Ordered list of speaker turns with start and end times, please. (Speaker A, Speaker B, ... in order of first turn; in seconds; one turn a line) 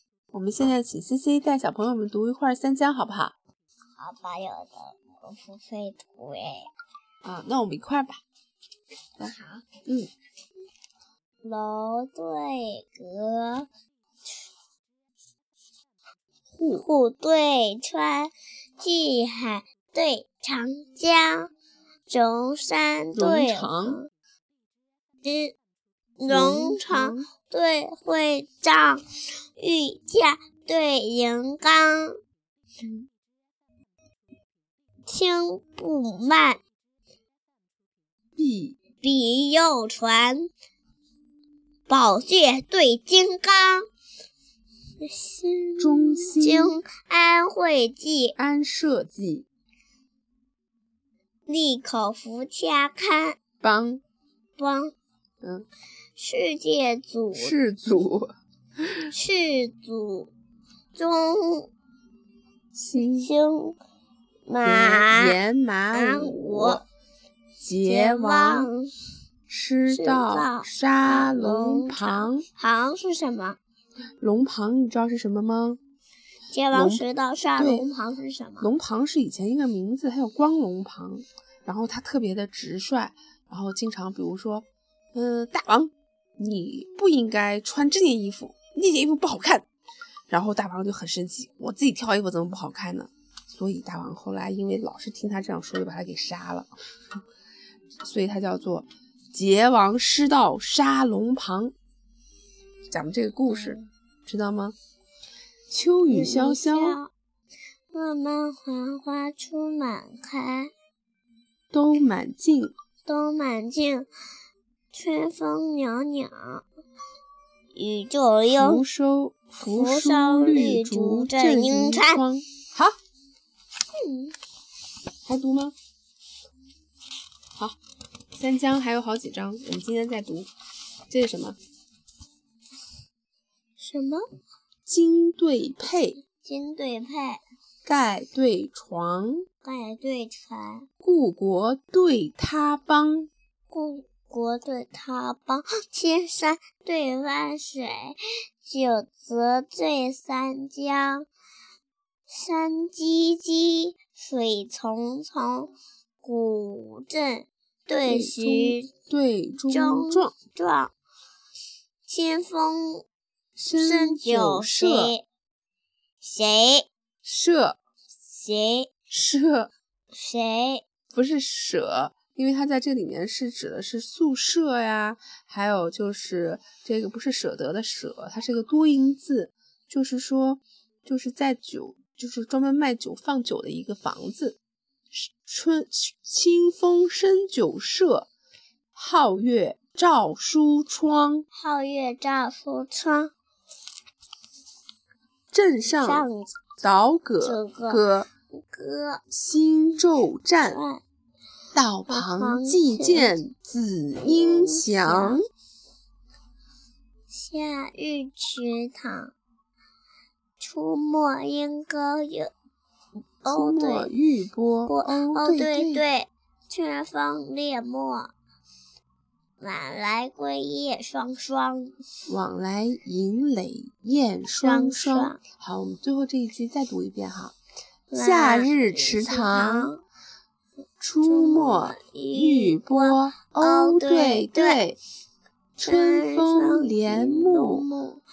Speaker A: 0.3-3.4
Speaker B: 4.0-6.7
Speaker A: 7.2-8.2
Speaker B: 9.2-9.6
Speaker B: 11.4-13.7
Speaker A: 16.5-16.9
Speaker B: 16.8-21.5
Speaker B: 22.1-24.1
Speaker A: 23.1-24.0
Speaker B: 25.2-25.5
Speaker B: 26.2-29.0
Speaker A: 26.3-27.3
Speaker B: 29.6-32.1
Speaker A: 32.8-33.1
Speaker B: 35.1-36.6
Speaker A: 38.4-38.8
Speaker B: 39.0-40.5
Speaker B: 41.9-43.8
Speaker B: 45.0-48.4
Speaker A: 45.8-46.8
Speaker A: 48.4-49.5
Speaker B: 51.5-53.4
Speaker A: 53.6-54.0
Speaker B: 54.6-54.9
Speaker A: 55.4-55.6
Speaker B: 56.2-57.5
Speaker A: 57.3-58.3
Speaker B: 59.1-60.3
Speaker B: 60.9-61.7
Speaker A: 62.7-63.3
Speaker B: 63.1-63.8
Speaker B: 64.5-65.4
Speaker A: 64.6-66.8
Speaker B: 65.9-66.8
Speaker A: 67.6-68.7
Speaker B: 67.8-68.9
Speaker A: 69.5-72.4
Speaker B: 69.9-73.6
Speaker A: 74.2-75.8
Speaker B: 76.5-78.7
Speaker A: 76.7-77.0
Speaker A: 77.6-77.9
Speaker A: 78.6-89.7
Speaker A: 90.3-96.7
Speaker A: 98.0-101.7
Speaker A: 102.9-104.8
Speaker B: 103.5-103.8
Speaker A: 105.7-107.0
Speaker B: 106.1-107.1
Speaker B: 107.9-110.7
Speaker A: 111.7-112.7
Speaker B: 113.0-114.1
Speaker B: 114.9-116.6
Speaker B: 117.7-118.8
Speaker A: 118.5-122.9
Speaker B: 119.7-122.2
Speaker B: 123.9-124.3
Speaker A: 125.2-125.7
Speaker A: 128.3-130.5
Speaker A: 131.1-131.6
Speaker B: 133.8-134.2
Speaker A: 134.9-136.2
Speaker B: 136.3-137.4
Speaker A: 137.8-139.4
Speaker B: 139.6-140.8
Speaker A: 141.0-143.3
Speaker B: 143.7-151.3
Speaker B: 152.3-155.7
Speaker B: 156.2-158.9
Speaker A: 158.0-160.3
Speaker B: 159.7-160.9
Speaker B: 162.1-163.1
Speaker A: 163.6-165.2
Speaker B: 163.7-165.2
Speaker B: 166.2-166.9
Speaker A: 167.2-167.8
Speaker B: 168.3-168.9
Speaker A: 169.1-169.7
Speaker B: 170.1-170.8
Speaker A: 171.1-184.6
Speaker A: 185.1-188.3
Speaker A: 188.9-191.5
Speaker B: 191.5-193.3
Speaker A: 195.5-196.3
Speaker B: 195.9-196.6
Speaker A: 196.8-198.3
Speaker B: 197.4-198.0
Speaker B: 198.6-199.2
Speaker A: 199.3-200.8
Speaker B: 200.7-201.0
Speaker A: 201.7-205.4
Speaker B: 202.1-203.4
Speaker B: 204.2-205.4
Speaker B: 207.3-209.3
Speaker B: 210.6-212.5
Speaker B: 213.4-214.1
Speaker A: 213.4-216.0
Speaker B: 214.8-218.3
Speaker B: 219.6-221.9
Speaker A: 222.3-227.6
Speaker B: 224.6-225.4
Speaker B: 228.1-230.0
Speaker A: 228.1-229.9
Speaker A: 231.0-235.0
Speaker B: 231.2-234.8
Speaker A: 235.8-237.9
Speaker B: 235.8-238.2